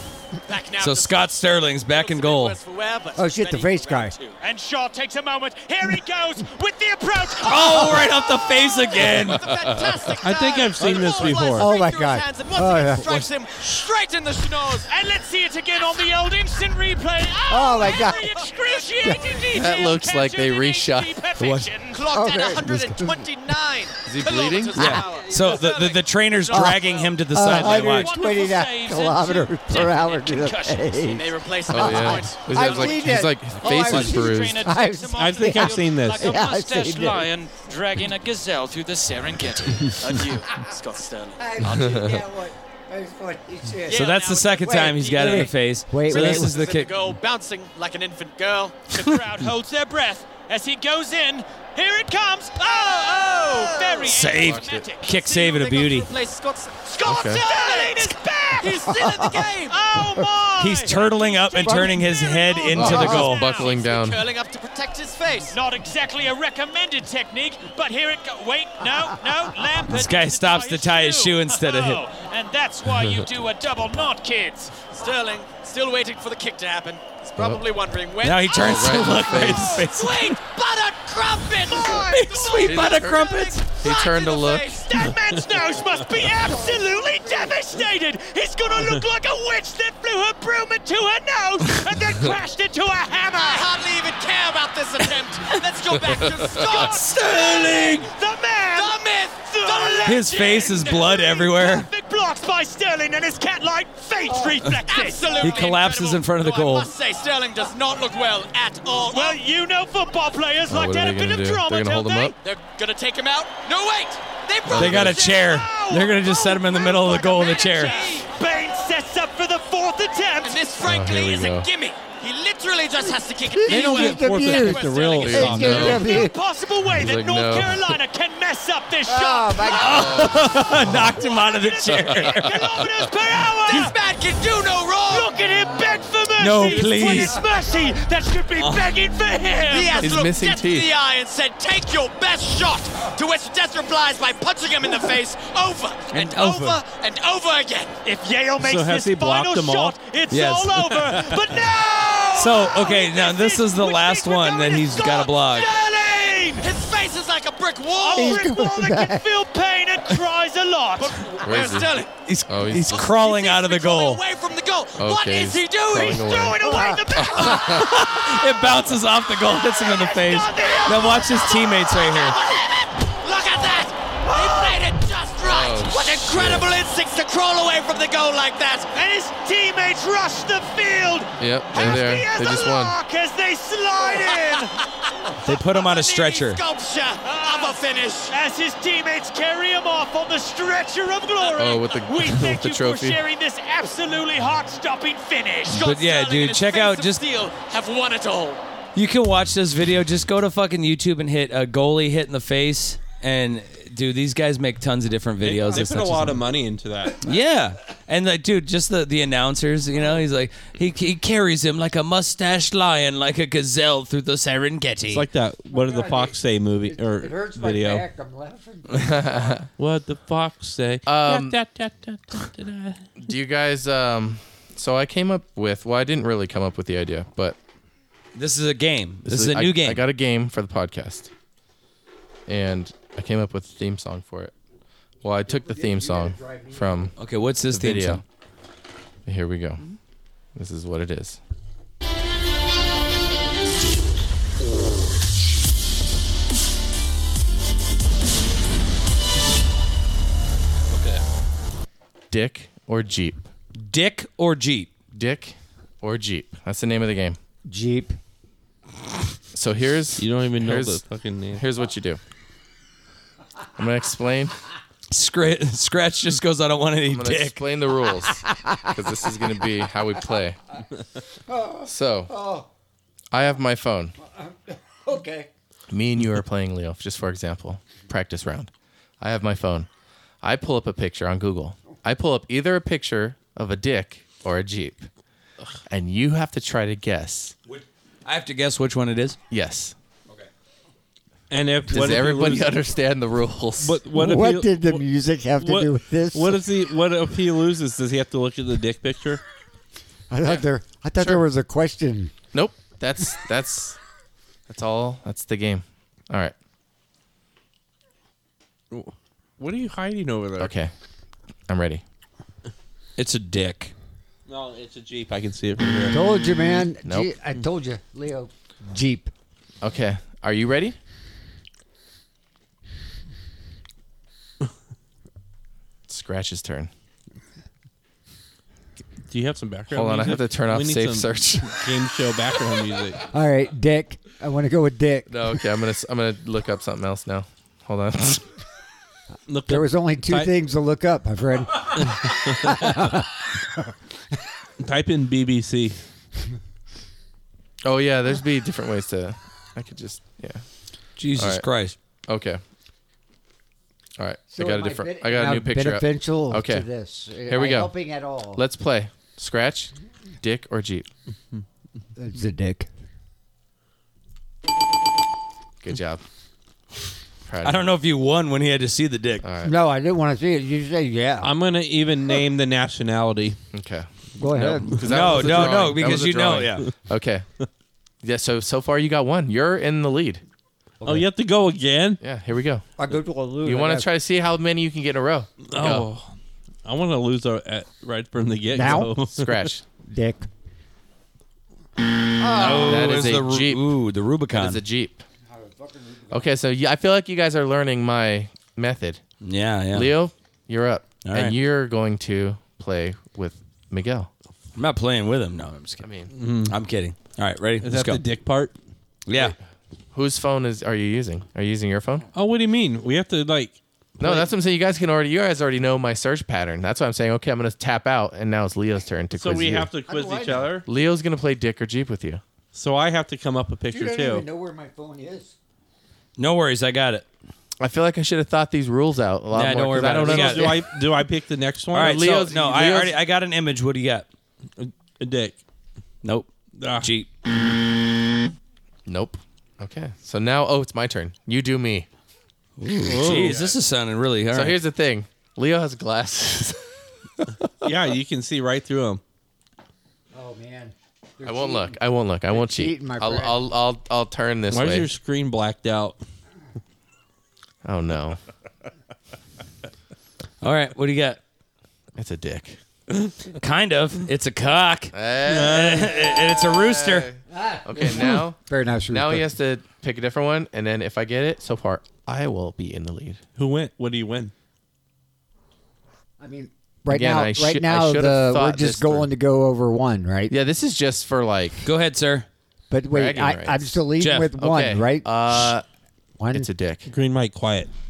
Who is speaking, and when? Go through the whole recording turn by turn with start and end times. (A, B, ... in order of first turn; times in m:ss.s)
0:00.5-0:04.4 A
0:00.8-0:02.6 B
0:03.2-0:04.2 C
0:04.4-0:08.7 D
0:07.4-0:09.5 B
0:08.0-0:14.9 A
0:09.1-0:10.2 E
0:10.2-0:11.7 F
0:11.5-0:13.3 C
0:14.8-0:22.0 D
0:17.5-0:18.3 C
0:17.8-0:19.6 A
0:19.5-0:21.6 E
0:21.9-0:27.3 A
0:22.1-0:23.3 C
0:24.0-0:25.0 E
0:24.7-0:28.1 B
0:26.5-0:37.3 C
0:27.5-0:31.1 D
0:31.0-0:33.2 A
0:31.7-0:34.6 E
0:33.6-0:40.0 D
0:35.1-0:36.3 F
0:39.9-0:41.5 A
0:41.4-0:44.1 C
0:41.6-0:42.2 E
0:43.9-0:48.9 A
0:43.9-0:47.0 B
0:44.6-0:46.6 C
0:48.9-0:55.7 D
0:52.6-0:54.4 A
0:54.0-0:56.1 B
0:54.3-0:54.9 E
0:55.1-0:59.8 A
0:56.9-1:03.8 D
0:57.0-0:57.4 E
0:58.9-0:59.5 C
1:00.6-1:03.4 B
1:01.6-1:02.1 C
1:02.7-1:04.3 E
1:02.8-1:03.2 C
1:02.8-1:05.5 A
1:05.5-1:14.9 D
1:09.8-1:12.0 B
1:14.9-1:24.9 A
1:17.4-1:17.7 E
1:18.2-1:20.4 B
1:18.5-1:19.9 E
1:21.6-1:22.0 D
1:21.7-1:23.7 B
1:22.6-1:24.8 E
1:24.8-1:33.7 D
1:26.5-1:27.5 C
1:33.3-1:38.0 A
1:36.0-1:36.8 E
1:36.6-1:45.7 D
1:36.8-1:38.1 B
1:38.7-1:40.6 A
1:40.0-1:41.9 B
1:44.7-1:49.4 A
1:45.4-1:46.9 B
1:49.0-1:52.3 D
1:50.7-1:52.3 E
1:52.4-1:58.3 A
1:54.6-1:55.3 E
1:54.7-1:58.0 B
1:55.1-2:00.8 D
2:00.4-2:06.0 A
2:00.8-2:01.7 E
2:03.5-2:06.4 C
2:03.6-2:05.9 F
2:05.2-2:06.2 E
2:05.4-2:14.0 D
2:06.9-2:07.9 E
2:09.1-2:10.3 C
2:09.6-2:12.8 B
2:09.8-2:11.2 E
2:11.9-2:12.9 E
2:13.7-2:15.3 A
2:15.0-2:20.2 D
2:16.4-2:17.4 B
2:16.9-2:17.2 C
2:19.7-2:28.0 A
2:20.0-2:20.9 E
2:26.1-2:26.8 B
2:28.0-2:36.7 D
2:28.6-2:29.9 F
2:30.3-2:31.2 B
2:32.3-2:35.7 B
2:36.6-2:38.5 A
2:37.9-2:41.5 D
2:38.2-2:39.3 C
2:41.0-2:46.5 A
2:41.4-2:43.2 E
2:42.2-2:44.2 B
2:45.0-2:46.6 E
2:46.0-2:47.9 D
2:46.6-2:47.1 C
2:47.1-2:47.9 E
2:47.4-2:52.4 B
2:49.6-2:51.5 D
2:51.1-2:59.0 A
2:54.2-2:54.9 D
2:55.4-2:56.8 E
2:58.9-3:04.8 D
3:01.4-3:03.0 E
3:05.4-3:06.6 B
3:05.7-3:08.3 A
3:07.2-3:15.9 D
3:11.5-3:13.2 E
3:15.7-3:17.3 B
3:15.7-3:18.6 A
3:18.9-3:26.4 B
3:25.4-3:27.2 F
3:27.2-3:35.2 B
3:35.1-3:38.0 F
3:35.7-3:39.6 C
3:38.9-3:39.7 E
3:39.8-3:43.0 F
3:41.0-3:41.6 E
3:43.2-3:47.6 E
3:48.3-3:50.0 B
3:49.2-3:51.3 E
3:52.5-3:54.5 E
3:55.2-3:57.1 E
3:55.4-3:57.1 C
3:57.2-3:58.2 B
3:57.7-3:58.2 E
3:59.2-3:59.8 E
4:00.5-4:01.4 E
4:12.3-4:13.4 E
4:13.8-4:14.9 B
4:15.1-4:17.4 E
4:17.7-4:18.2 C
4:19.5-4:22.2 E
4:20.2-4:21.6 F
4:23.8-4:24.6 E
4:25.1-4:27.6 B
4:27.1-4:30.6 E
4:28.5-4:28.9 C
4:31.5-4:32.7 C
4:31.8-4:32.3 E
4:33.3-4:34.1 E
4:34.2-4:35.5 C
4:35.9-4:38.7 E
4:39.2-4:39.9 E
4:40.4-4:45.1 E
4:45.9-4:47.5 E
4:47.7-4:49.4 B
4:49.5-4:49.9 E
4:51.5-4:52.8 F
4:51.9-4:54.0 E
4:53.8-4:55.0 F
4:54.1-4:56.6 C
4:55.6-4:59.4 F
5:00.3-5:02.3 C
5:02.5-5:04.0 E
5:04.7-5:06.5 E
5:08.9-5:10.7 F
5:10.6-5:10.9 E
5:11.7-5:12.0 E
5:13.2-5:13.9 B
5:14.5-5:16.2 F
5:16.1-5:19.3 C
5:17.0-5:17.3 E
5:19.8-5:21.0 E
5:26.1-5:26.9 E
5:29.3-5:33.2 F
5:29.9-5:31.8 E
5:33.3-5:35.3 C
5:35.3-5:38.4 E
5:39.5-5:40.5 F
5:39.7-5:43.3 C
5:42.1-5:43.1 F
5:44.8-5:46.0 F
5:47.8-5:50.6 E
5:51.2-5:52.0 B
5:51.4-5:51.6 E
5:52.3-5:52.6 E
5:54.2-5:56.9 E
5:54.5-5:58.6 C
5:57.5-5:57.9 E
5:58.5-6:01.0 E
6:02.2-6:02.9 C
6:05.8-6:06.2 E
6:07.4-6:07.9 E
6:07.6-6:09.4 B
6:09.4-6:09.7 E
6:09.6-6:11.5 C
6:11.4-6:13.6 F
6:13.7-6:17.4 E
6:14.4-6:15.0 C
6:14.9-6:16.9 B
6:15.1-6:16.2 F
6:18.2-6:20.4 E
6:21.0-6:21.2 C
6:21.0-6:22.2 F
6:22.2-6:22.8 E
6:23.0-6:24.1 C
6:23.6-6:26.1 E
6:25.7-6:26.3 F
6:26.8-6:29.7 F
6:28.7-6:29.2 C
6:29.3-6:29.8 E
6:30.1-6:30.5 C
6:32.4-6:33.1 C
6:32.5-6:34.8 B
6:32.6-6:33.8 E
6:34.5-6:35.2 E
6:35.5-6:36.5 C
6:36.3-6:39.2 E
6:39.4-6:40.1 B
6:39.9-6:44.3 E
6:41.2-6:41.6 B
6:44.8-6:46.1 B
6:46.0-6:46.3 E
6:46.3-6:46.8 F
6:46.6-6:48.2 B
6:47.8-6:48.7 F
6:49.3-6:49.5 B
6:50.1-6:52.3 E
6:52.3-6:54.5 F
6:54.2-6:59.9 E
6:59.3-7:00.9 F
7:00.1-7:00.8 C
7:00.9-7:02.4 E
7:02.7-7:04.4 F
7:03.9-7:05.5 C
7:06.4-7:07.2 B
7:07.8-7:10.9 E
7:09.5-7:10.9 B
7:10.0-7:12.3 F
7:11.9-7:14.3 B
7:11.9-7:13.2 E
7:14.8-7:15.6 F
7:16.2-7:17.3 B
7:16.8-7:17.1 F
7:19.0-7:22.1 E
7:22.8-7:24.8 B
7:23.0-7:23.7 F
7:23.3-7:23.6 E
7:24.5-7:26.8 E
7:27.8-7:29.2 F
7:30.3-7:32.0 C
7:31.4-7:35.1 E
7:32.5-7:33.6 C
7:34.7-7:36.2 F
7:37.8-7:38.4 E
7:40.6-7:41.4 B
7:42.2-7:42.8 E
7:43.6-7:47.3 B
7:45.1-7:48.6 E
7:45.4-7:45.9 F
7:47.5-7:49.5 C
7:49.1-7:53.4 E
7:53.6-7:54.5 F
7:56.4-8:00.5 C
7:57.1-7:59.3 E
8:00.5-8:01.8 E
8:01.8-8:02.5 B
8:02.9-8:05.7 C
8:03.1-8:04.0 E
8:04.2-8:04.5 B
8:04.6-8:05.8 E
8:06.4-8:06.7 C
8:06.5-8:07.1 E
8:07.1-8:07.9 F